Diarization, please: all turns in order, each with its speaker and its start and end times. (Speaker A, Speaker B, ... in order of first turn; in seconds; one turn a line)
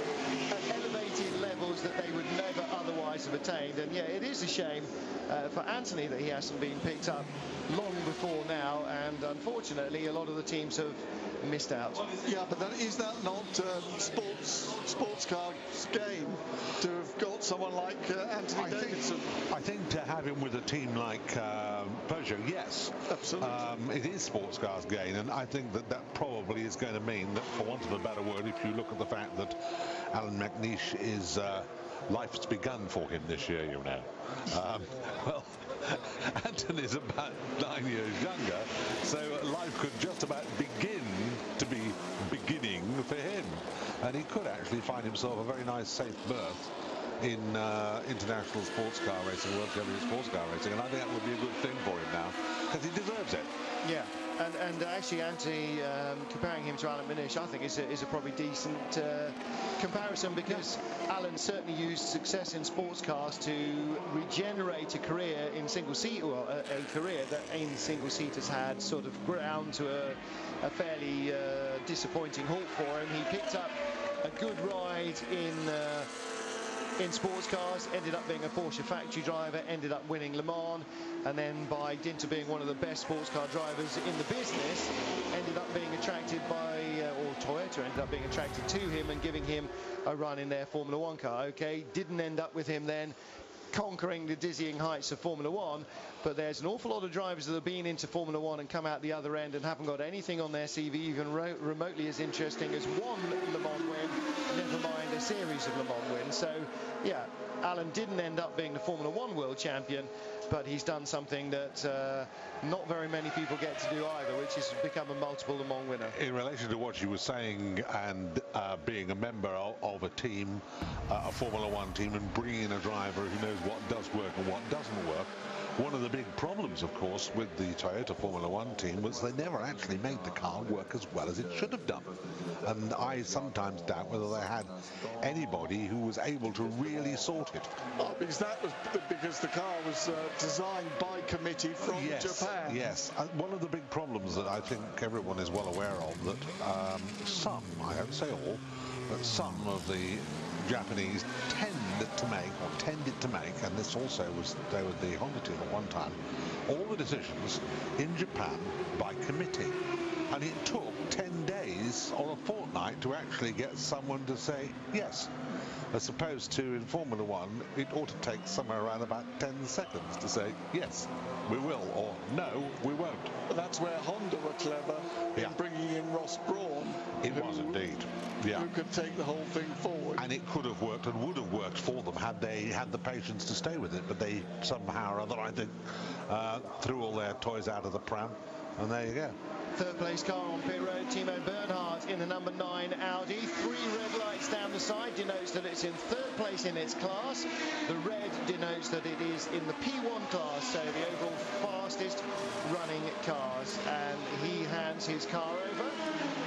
Speaker A: 0.5-12.1
Speaker B: 12.2-19.4
Speaker C: 18.6-29.6
Speaker B: 23.1-23.7
Speaker C: 30.1-46.7
Speaker C: 47.2-53.5
Speaker A: 53.8-76.1
Speaker A: 77.0-93.2
Speaker A: 93.7-116.2
Speaker C: 116.1-137.7
Speaker B: 138.0-142.9
Speaker C: 141.9-159.8
Speaker C: 160.3-165.3
Speaker C: 165.9-173.4
Speaker B: 173.5-177.8
Speaker C: 177.2-178.7
Speaker B: 178.5-180.3
Speaker C: 180.2-189.4
Speaker A: 189.8-206.0